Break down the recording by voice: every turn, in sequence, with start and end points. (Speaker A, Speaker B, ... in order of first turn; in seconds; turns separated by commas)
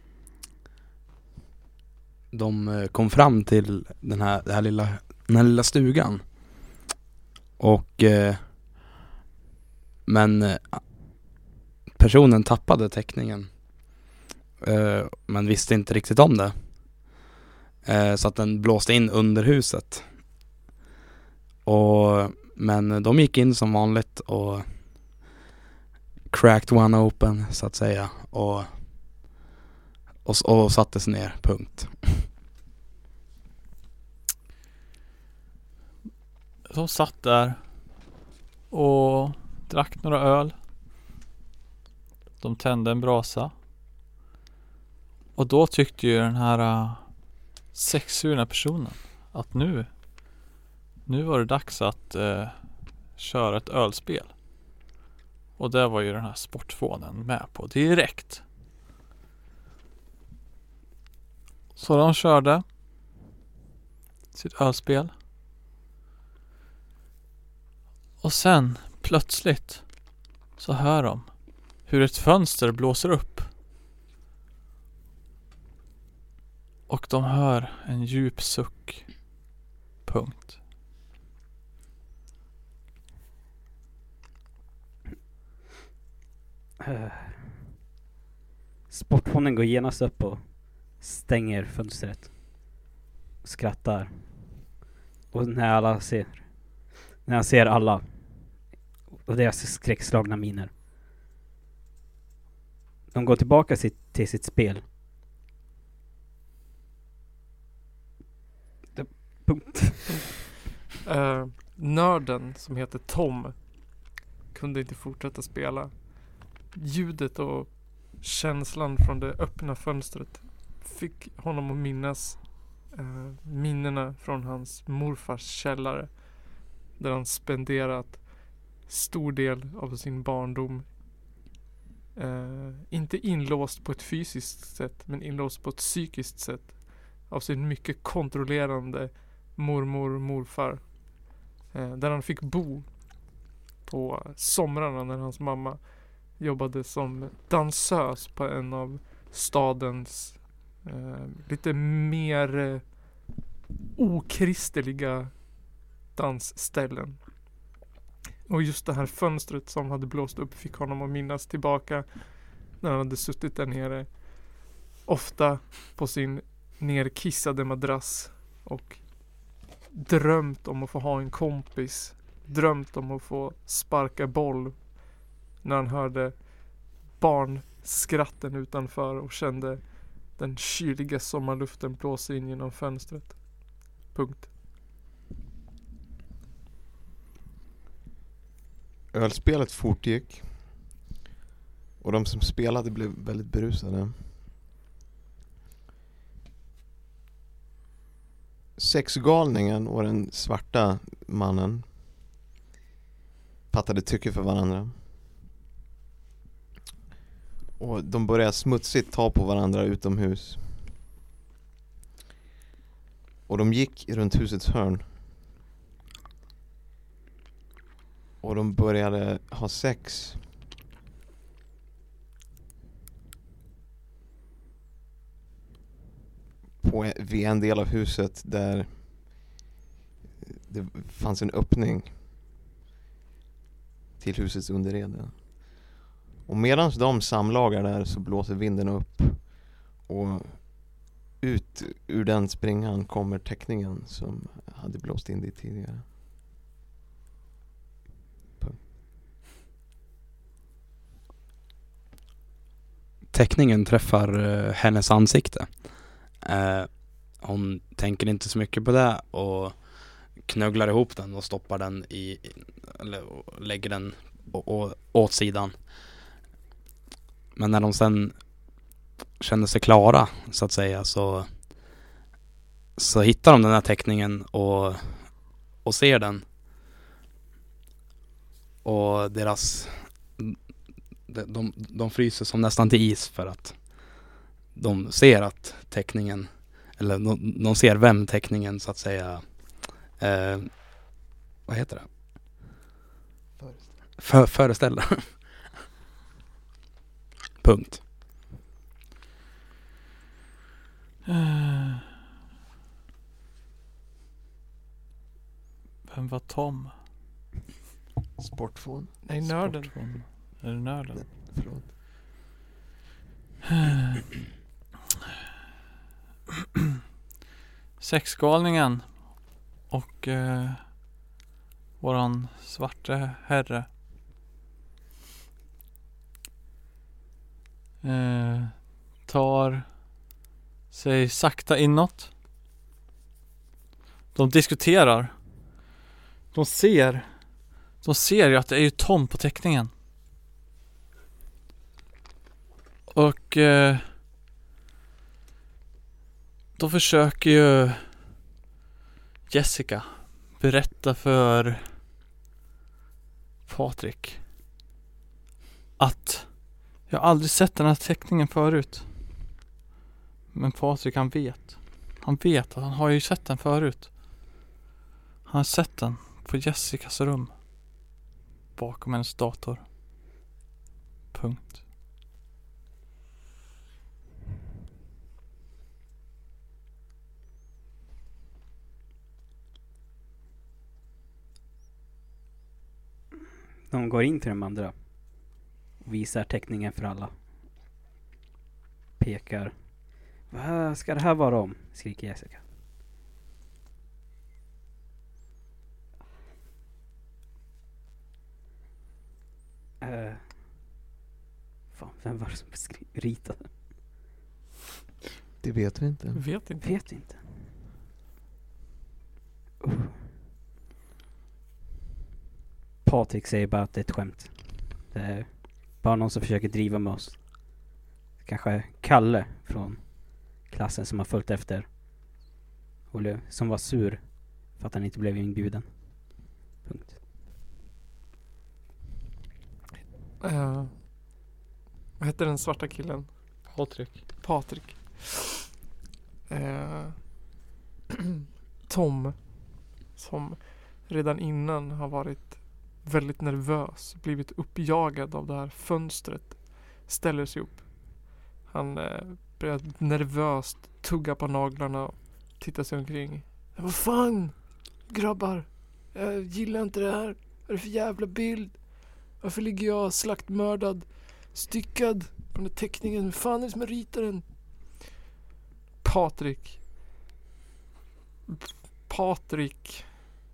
Speaker A: 2.3-6.7, Speaker A: 7.6-8.8, Speaker A: 10.1-11.3, Speaker A: 11.9-14.1, Speaker A: 14.6-17.1, Speaker A: 17.8-20.4, Speaker A: 21.6-25.2, Speaker A: 26.3-29.2, Speaker A: 30.2-32.3, Speaker B: 36.6-38.1, Speaker B: 38.7-40.6, Speaker B: 42.4-43.5, Speaker B: 45.3-50.5, Speaker B: 51.0-54.4, Speaker B: 55.6-58.5, Speaker B: 61.8-62.6, Speaker B: 64.3-65.1, Speaker B: 68.2-73.5, Speaker B: 76.9-79.4, Speaker B: 80.0-80.6, Speaker C: 86.8-87.6, Speaker C: 88.9-92.9, Speaker C: 93.4-94.7, Speaker C: 95.3-100.7, Speaker C: 103.1-104.8, Speaker C: 108.9-110.2, Speaker D: 111.0-130.9, Speaker D: 132.2-153.3, Speaker D: 153.9-157.6, Speaker D: 158.5-184.5, Speaker E: 189.1-190.9, Speaker E: 192.0-194.4, Speaker E: 198.8-201.9, Speaker E: 203.7-205.0, Speaker E: 207.8-210.9, Speaker E: 213.5-215.2, Speaker E: 218.4-220.5, Speaker E: 226.8-229.6, Speaker E: 230.4-232.2, Speaker E: 234.2-235.9, Speaker E: 236.4-246.1, Speaker A: 253.3-266.2, Speaker A: 267.5-268.8, Speaker A: 269.4-272.0, Speaker A: 273.0-276.5, Speaker A: 278.8-280.6, Speaker A: 281.2-292.1, Speaker E: 293.6-293.9, Speaker A: 294.1-295.7, Speaker A: 297.6-298.0, Speaker B: 301.2-302.0, Speaker B: 306.1-306.9, Speaker E: 308.4-309.2, Speaker D: 309.2-309.9, Speaker B: 309.4-311.3, Speaker E: 311.1-311.9, Speaker B: 318.0-321.0, Speaker B: 322.0-323.9, Speaker B: 328.0-330.2, Speaker B: 330.9-332.3, Speaker B: 334.3-335.7, Speaker B: 336.5-339.9, Speaker B: 343.1-344.1, Speaker B: 346.8-348.2, Speaker B: 349.5-352.0, Speaker B: 353.7-354.4, Speaker B: 356.0-359.1, Speaker B: 360.5-364.4, Speaker B: 365.4-367.6, Speaker B: 368.7-369.9, Speaker B: 371.3-371.8, Speaker C: 383.9-387.5, Speaker C: 389.2-392.7, Speaker C: 400.0-400.7, Speaker C: 401.9-403.7, Speaker E: 405.6-406.4, Speaker D: 406.3-406.8, Speaker C: 406.8-407.6, Speaker C: 409.8-410.1, Speaker C: 413.0-422.4, Speaker C: 423.1-427.2, Speaker D: 430.4-431.0, Speaker D: 432.2-433.9, Speaker B: 433.7-434.3, Speaker D: 434.4-435.6, Speaker D: 436.5-437.5, Speaker D: 438.9-464.8, Speaker D: 466.0-466.8, Speaker D: 468.6-470.1